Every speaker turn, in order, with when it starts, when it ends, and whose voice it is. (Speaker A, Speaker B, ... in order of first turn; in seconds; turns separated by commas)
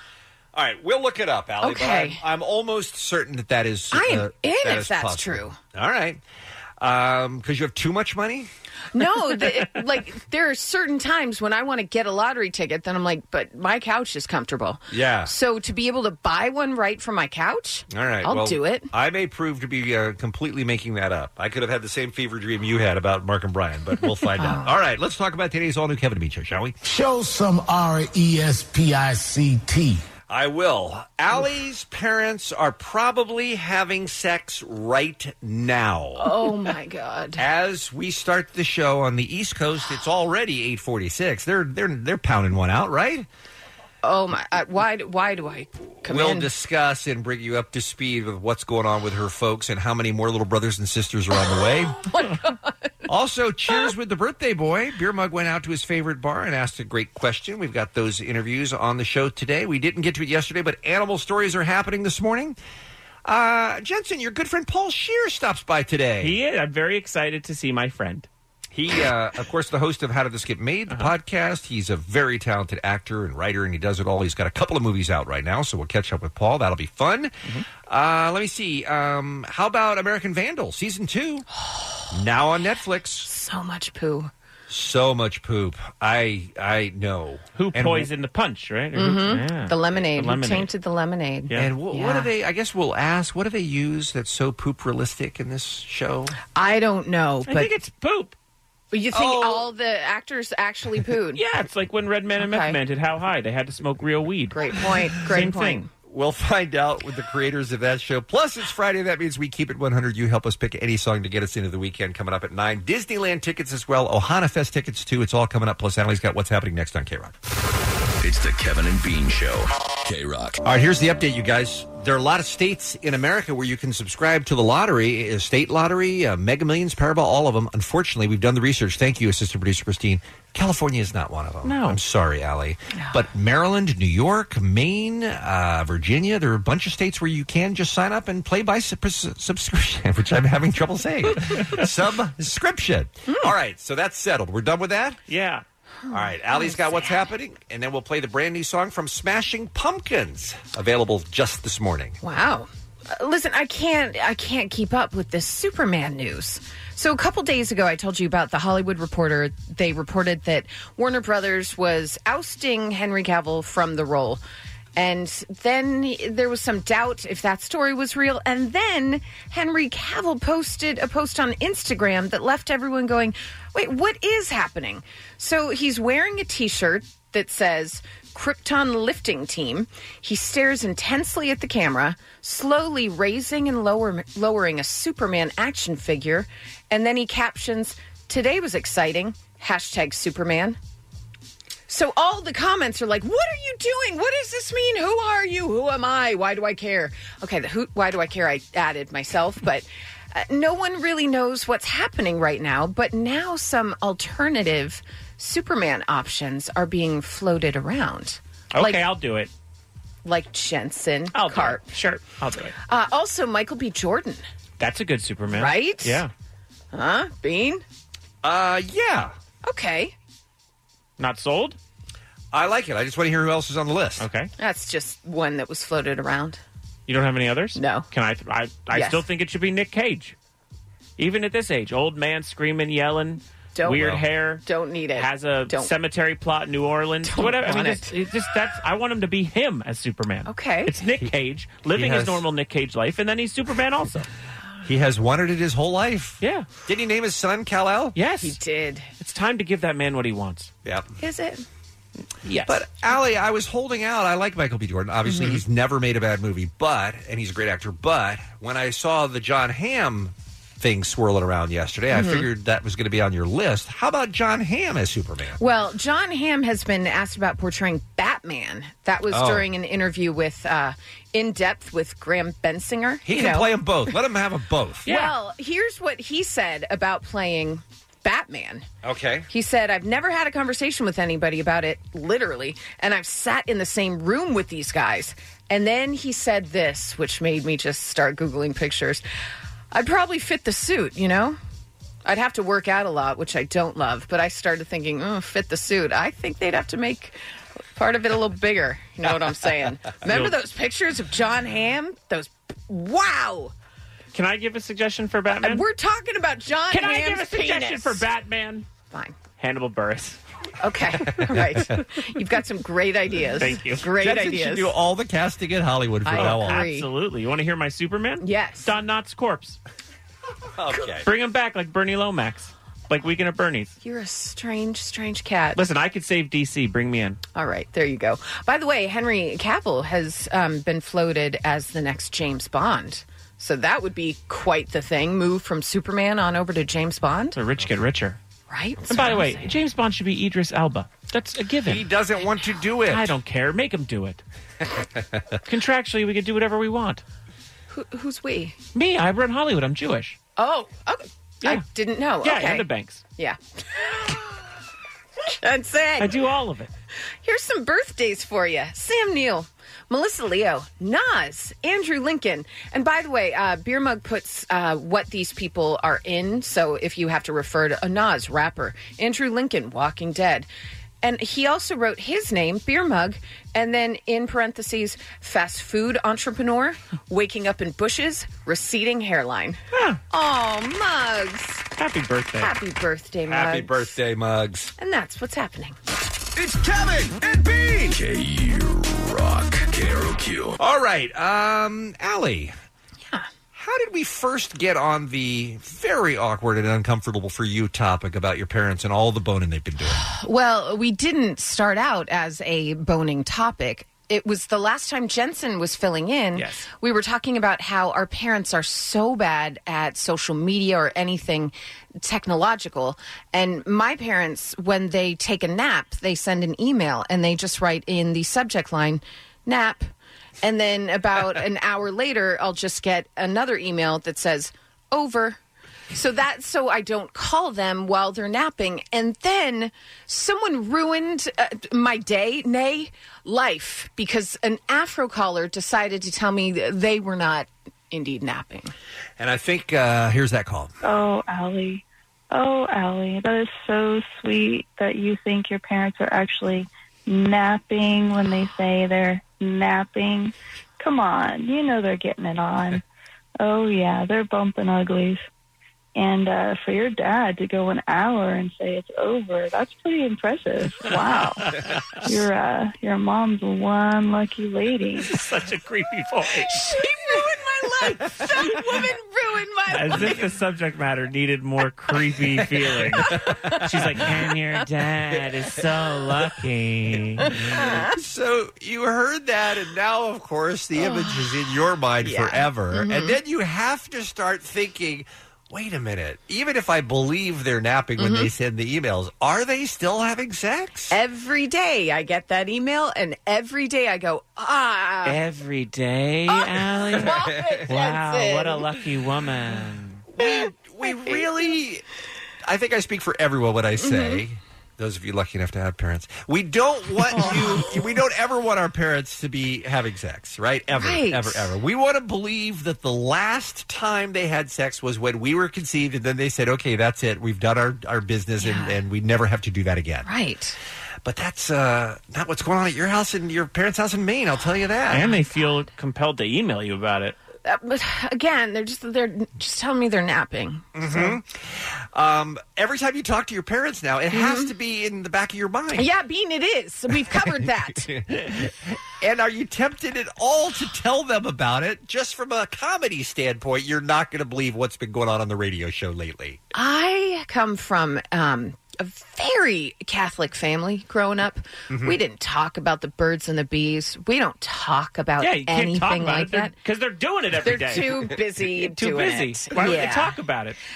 Speaker A: 0.5-6.2, Speaker B: 1.6-2.2, Speaker B: 3.9-5.6, Speaker A: 6.8-8.5, Speaker B: 8.9-18.9, Speaker A: 14.9-15.3, Speaker A: 17.9-26.7, Speaker B: 24.3-24.7, Speaker C: 26.8-30.0, Speaker A: 30.3-36.4, Speaker B: 36.2-37.4, Speaker A: 37.4-43.3, Speaker B: 44.0-46.5, Speaker A: 46.0-52.0, Speaker B: 52.0-52.9, Speaker A: 53.1-62.6, Speaker A: 63.2-66.4, Speaker D: 66.2-68.3, Speaker A: 68.7-77.3, Speaker A: 77.9-81.5, Speaker B: 81.6-82.1, Speaker A: 82.1-83.3, Speaker B: 83.2-84.3, Speaker A: 84.7-88.1, Speaker D: 87.6-90.7, Speaker B: 89.0-92.3, Speaker A: 91.5-96.3, Speaker B: 96.5-97.7, Speaker D: 97.5-98.3, Speaker B: 98.9-101.4, Speaker A: 99.1-99.7, Speaker D: 101.3-105.8, Speaker B: 102.4-102.8, Speaker B: 104.5-105.9, Speaker A: 106.1-117.3, Speaker E: 118.2-120.6, Speaker A: 120.7-145.2, Speaker D: 131.6-132.0, Speaker D: 145.3-145.6, Speaker B: 146.0-147.3, Speaker A: 146.1-152.2, Speaker B: 152.2-164.4, Speaker B: 165.0-190.8, Speaker B: 191.9-209.0, Speaker D: 208.7-209.5, Speaker B: 210.2-211.9, Speaker D: 211.3-212.8, Speaker B: 212.9-214.4, Speaker D: 214.8-216.3, Speaker B: 215.5-216.2, Speaker B: 216.9-217.8, Speaker A: 218.4-219.3, Speaker B: 219.6-220.1, Speaker D: 221.2-221.8, Speaker A: 222.5-224.3, Speaker D: 224.2-224.5, Speaker B: 224.6-226.6, Speaker D: 227.1-230.4, Speaker B: 227.8-228.1, Speaker B: 228.9-229.2, Speaker D: 231.2-244.3, Speaker B: 233.8-235.9, Speaker A: 233.9-234.2, Speaker B: 237.2-238.1, Speaker B: 240.5-240.9, Speaker A: 241.9-242.4, Speaker A: 244.8-248.2, Speaker D: 246.4-246.7, Speaker D: 248.2-248.6, Speaker B: 248.4-249.1, Speaker D: 249.2-250.7, Speaker A: 250.8-251.1, Speaker B: 251.2-251.7, Speaker D: 252.4-252.8, Speaker A: 252.7-265.6, Speaker B: 255.2-255.6, Speaker B: 262.1-262.5, Speaker B: 265.6-273.7, Speaker A: 269.3-269.7, Speaker A: 273.2-275.1, Speaker D: 275.1-275.4, Speaker B: 275.1-278.9, Speaker A: 279.0-279.5, Speaker B: 279.5-289.2, Speaker B: 289.9-291.6, Speaker B: 292.2-297.4, Speaker B: 297.9-303.7, Speaker D: 304.3-305.9, Speaker B: 305.6-308.2, Speaker D: 306.9-308.9, Speaker B: 309.1-309.4, Speaker D: 309.6-310.4, Speaker B: 310.8-314.9, Speaker A: 311.4-311.9, Speaker D: 313.6-314.1, Speaker A: 314.2-316.9, Speaker B: 316.2-317.1, Speaker D: 316.3-319.8, Speaker B: 318.4-318.9, Speaker A: 320.8-321.3, Speaker D: 321.2-323.9, Speaker B: 324.0-325.8, Speaker D: 325.8-327.4, Speaker B: 327.6-337.6, Speaker D: 337.6-338.4, Speaker B: 338.7-339.8, Speaker D: 339.1-342.1, Speaker A: 341.9-343.3, Speaker D: 343.1-344.4, Speaker D: 345.7-347.2, Speaker B: 347.9-348.8, Speaker D: 348.9-350.4, Speaker B: 350.6-352.9, Speaker D: 352.4-353.2, Speaker B: 353.4-354.4, Speaker B: 355.6-356.4, Speaker D: 356.2-356.9, Speaker B: 357.4-370.7, Speaker B: 371.2-381.9, Speaker D: 379.9-380.2, Speaker D: 382.0-382.7, Speaker B: 382.6-384.1, Speaker A: 383.5-384.9, Speaker B: 385.0-386.0, Speaker E: 386.6-390.8, Speaker A: 390.8-392.7, Speaker A: 393.7-400.2, Speaker B: 400.1-420.1, Speaker D: 406.6-406.9, Speaker B: 420.6-425.6, Speaker B: 426.1-438.9, Speaker A: 439.4-440.9, Speaker F: 441.0-453.0, Speaker F: 453.6-455.4, Speaker F: 456.2-461.7, Speaker F: 462.3-465.3, Speaker D: 465.3-466.9, Speaker B: 466.6-470.5, Speaker D: 469.9-478.0, Speaker B: 477.7-478.1, Speaker A: 478.0-491.2, Speaker B: 481.0-481.5, Speaker B: 482.2-483.4, Speaker B: 488.2-488.5, Speaker B: 491.1-495.4, Speaker D: 495.2-500.2, Speaker B: 496.5-498.8, Speaker A: 497.2-497.9, Speaker A: 500.3-502.0, Speaker B: 501.1-501.4, Speaker A: 502.6-520.3, Speaker B: 504.0-504.4, Speaker B: 507.3-507.9, Speaker B: 510.9-511.7, Speaker B: 518.6-519.0, Speaker B: 520.2-520.8, Speaker A: 521.2-525.3, Speaker D: 525.1-527.4, Speaker B: 527.6-531.4, Speaker A: 531.0-536.1, Speaker B: 534.3-534.7, Speaker B: 535.9-538.1, Speaker A: 537.3-546.6, Speaker B: 546.7-556.7, Speaker A: 551.9-552.2, Speaker D: 555.4-560.8, Speaker B: 557.6-560.4